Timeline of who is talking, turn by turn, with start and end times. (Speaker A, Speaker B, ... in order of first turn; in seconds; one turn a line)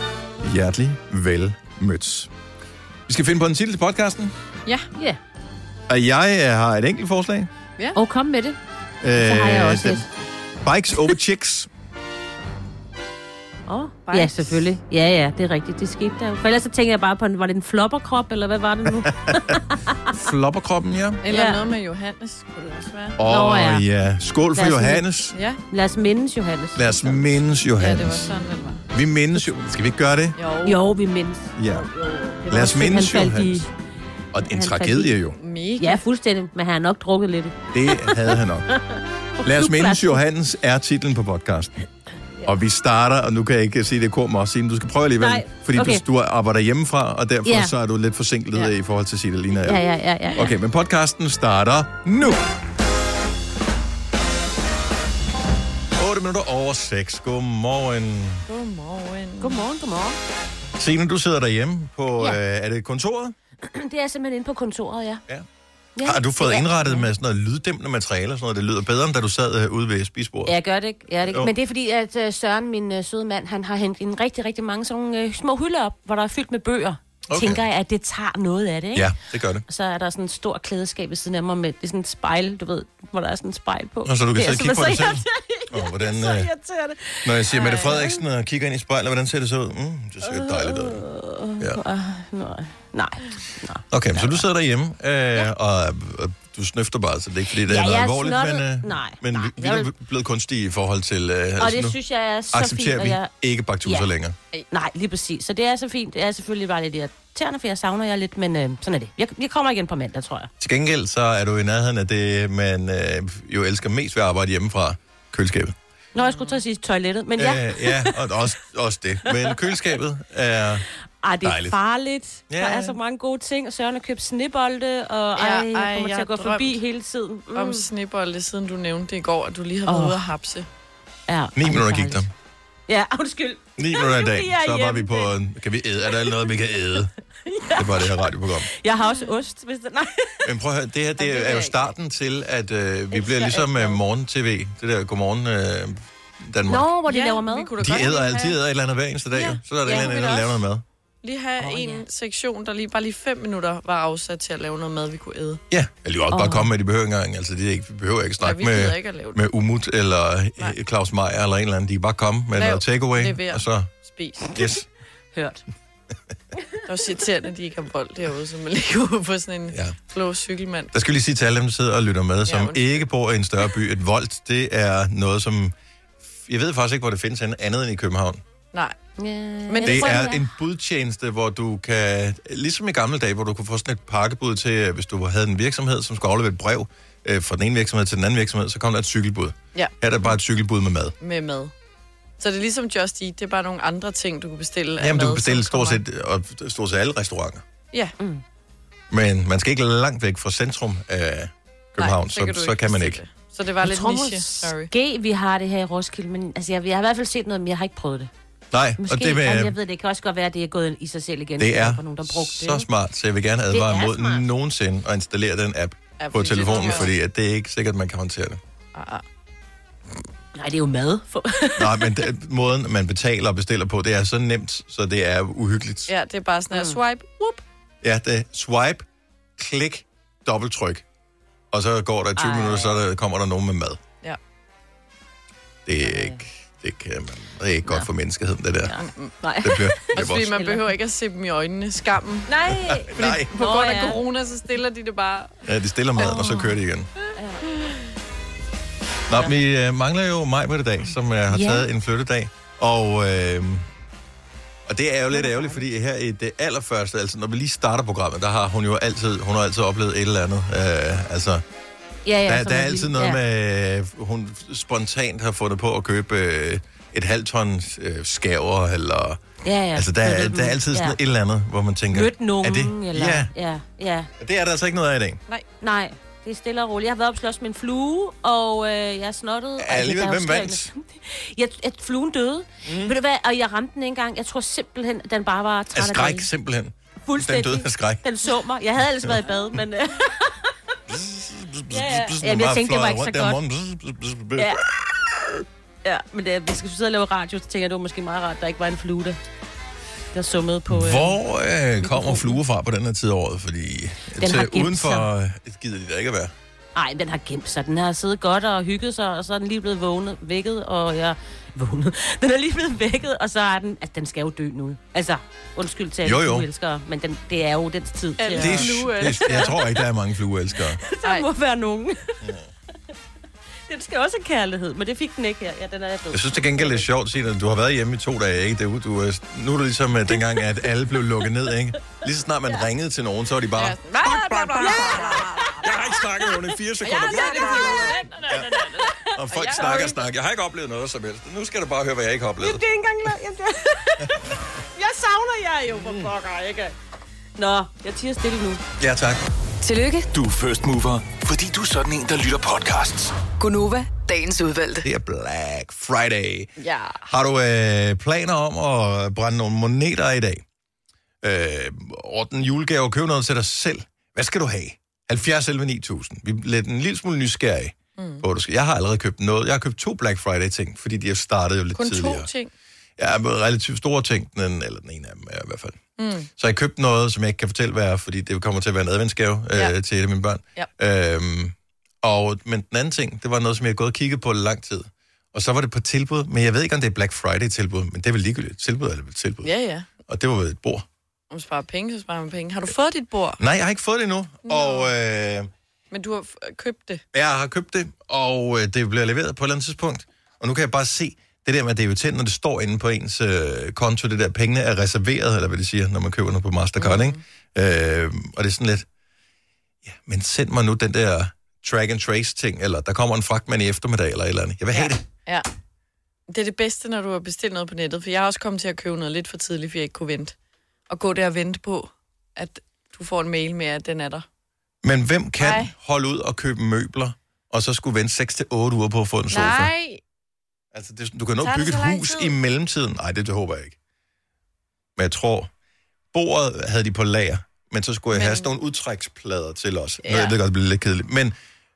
Speaker A: 0.4-2.3
Speaker A: 3.1-4.3
Speaker A: 5.9-7.5
Speaker B: 8.0-8.6
Speaker A: 9.0-10.1
Speaker B: 9.2-10.1
Speaker A: 10.6-11.7
Speaker B: 13.7-20.1
Speaker C: 14.1-14.7
Speaker A: 18.9-19.6
Speaker A: 20.1-21.2
Speaker C: 21.2-23.2
Speaker B: 21.3-21.6
Speaker A: 23.2-25.4
Speaker B: 23.2-23.8
Speaker B: 24.6-25.1
Speaker C: 25.3-25.6
Speaker B: 25.7-27.2
Speaker A: 26.8-28.3
Speaker C: 27.8-28.8
Speaker A: 28.9-30.4
Speaker C: 30.4-30.8
Speaker B: 30.6-33.7
Speaker A: 31.6-31.9
Speaker A: 32.5-33.7
Speaker A: 34.3-35.4
Speaker B: 34.5-35.1
Speaker C: 35.4-36.0
Speaker B: 35.8-38.4
Speaker A: 37.7-38.7
Speaker B: 39.4-40.2
Speaker A: 39.4-41.9
Speaker A: 42.4-52.4
Speaker B: 45.2-46.0
Speaker B: 47.5-47.7
Speaker B: 49.6-50.5
Speaker A: 56.0-58.5
Speaker C: 58.5-59.6
Speaker B: 59.4-60.2
Speaker A: 60.8-63.4
Speaker B: 63.6-65.2
Speaker B: 66.0-67.1
Speaker A: 66.0-70.5
Speaker B: 70.5-79.1
Speaker A: 71.2-71.5
Speaker A: 77.3-77.6
Speaker A: 78.9-79.7
Speaker B: 79.7-88.2
Speaker A: 84.0-86.5
Speaker A: 87.2-91.0
Speaker C: 87.5-88.0
Speaker B: 90.2-94.5
Speaker A: 93.9-102.0
Speaker B: 97.7-99.9
Speaker B: 101.6-103.3
Speaker A: 102.5-104.4
Speaker B: 104.7-110.5
Speaker A: 110.6-115.8
Speaker B: 116.2-118.2
Speaker C: 116.2-116.6
Speaker A: 117.4-120.8
Speaker B: 121.2-127.9
Speaker A: 121.4-121.8
Speaker A: 122.5-123.0
Speaker C: 125.4-126.8
Speaker C: 127.5-130.7
Speaker B: 129.9-130.2
Speaker B: 131.3-132.3
Speaker A: 131.6-132.3
Speaker B: 132.9-135.3
Speaker A: 133.8-137.1
Speaker B: 137.5-138.1
Speaker A: 137.7-138.7
Speaker B: 138.7-140.4
Speaker A: 140.4-146.9
Speaker C: 141.2-141.9
Speaker B: 143.1-144.0
Speaker B: 146.7-147.7
Speaker C: 147.1-148.5
Speaker A: 147.8-150.8
Speaker C: 149.3-150.5
Speaker B: 149.8-150.4
Speaker C: 151.2-155.6
Speaker B: 151.6-152.1
Speaker A: 155.7-163.9
Speaker B: 156.3-156.7
Speaker C: 158.4-159.4
Speaker C: 162.6-164.6
Speaker A: 164.5-164.9
Speaker B: 165.3-165.6
Speaker C: 166.9-170.9
Speaker A: 169.7-170.0
Speaker A: 170.9-175.7
Speaker C: 172.4-173.1
Speaker A: 176.4-178.4
Speaker B: 179.2-180.5
Speaker C: 179.7-180.2
Speaker A: 179.9-191.1
Speaker C: 191.2-191.7
Speaker C: 192.4-196.0
Speaker A: 195.0-197.6
Speaker B: 198.2-198.4
Speaker A: 199.1-203.2
Speaker C: 202.0-204.9
Speaker B: 203.8-208.3
Speaker A: 208.7-209.8
Speaker B: 209.0-212.9
Speaker A: 211.6-218.6
Speaker B: 213.7-214.4
Speaker C: 216.2-217.1
Speaker B: 216.7-217.1
Speaker C: 218.9-219.2
Speaker B: 220.6-222.3
Speaker A: 221.8-226.1
Speaker C: 226.1-227.6
Speaker A: 228.0-229.1
Speaker A: 229.6-231.0
Speaker A: 231.7-234.0
Speaker B: 232.4-233.0
Speaker A: 235.9-238.9
Speaker B: 236.0-236.4
Speaker B: 238.9-240.9
Speaker C: 238.9-239.4
Speaker A: 239.6-240.6
Speaker C: 240.1-242.5
Speaker B: 242.5-244.2
Speaker A: 242.7-243.5
Speaker C: 243.2-245.6
Speaker A: 245.7-247.1
Speaker B: 246.2-246.7
Speaker B: 247.3-247.7
Speaker C: 247.7-248.0
Speaker A: 249.3-253.9
Speaker B: 251.5-251.9
Speaker A: 254.9-261.6
Speaker B: 255.3-255.8
Speaker B: 262.2-263.4
Speaker A: 262.5-269.4
Speaker B: 269.6-271.2
Speaker A: 269.9-273.5
Speaker B: 272.1-274.3
Speaker A: 274.4-275.4
Speaker B: 275.8-286.5
Speaker A: 279.8-280.9
Speaker A: 282.9-283.1
Speaker A: 285.9-288.2
Speaker B: 287.2-290.7
Speaker A: 291.1-295.6
Speaker B: 291.9-293.6
Speaker B: 296.0-299.4
Speaker B: 300.3-301.4
Speaker A: 300.9-306.5
Speaker B: 302.0-302.6
Speaker B: 304.4-305.3
Speaker B: 306.9-320.0
Speaker A: 316.2-316.7
Speaker C: 318.4-319.8
Speaker A: 318.6-321.0
Speaker B: 321.0-322.4
Speaker B: 323.9-327.0
Speaker A: 326.3-334.0
Speaker C: 333.8-336.1
Speaker B: 334.8-336.2
Speaker A: 335.8-338.7
Speaker B: 337.1-340.1
Speaker C: 337.1-340.2
Speaker A: 339.3-342.8
Speaker B: 342.6-344.4
Speaker B: 345.0-346.9
Speaker A: 346.0-346.3
Speaker B: 347.6-348.8
Speaker A: 349.0-349.4
Speaker D: 349.8-350.3
Speaker E: 350.3-353.4
Speaker D: 353.5-355.1
Speaker A: 355.0-356.7
Speaker C: 356.8-357.2
Speaker A: 357.3-360.6
Speaker A: 361.4-372.5
Speaker C: 368.2-368.5
Speaker C: 371.9-372.7
Speaker A: 373.2-376.0
Speaker C: 376.2-376.5
Speaker A: 376.6-389.7
Speaker C: 389.6-390.1
Speaker A: 390.3-391.1
Speaker C: 391.5-393.6
Speaker A: 393.6-395.7
Speaker C: 394.6-395.1
Speaker C: 396.1-397.2
Speaker A: 397.3-409.1
Speaker C: 407.0-407.4
Speaker A: 410.1-415.2
Speaker C: 414.9-415.7
Speaker C: 416.5-420.6
Speaker C: 421.1-424.5
Speaker A: 425.0-429.9
Speaker C: 425.6-425.9
Speaker C: 429.5-430.2
Speaker A: 430.9-434.0
Speaker C: 431.6-432.6
Speaker A: 435.2-435.7
Speaker A: 436.3-441.6
Speaker C: 438.3-438.7
Speaker C: 440.2-440.6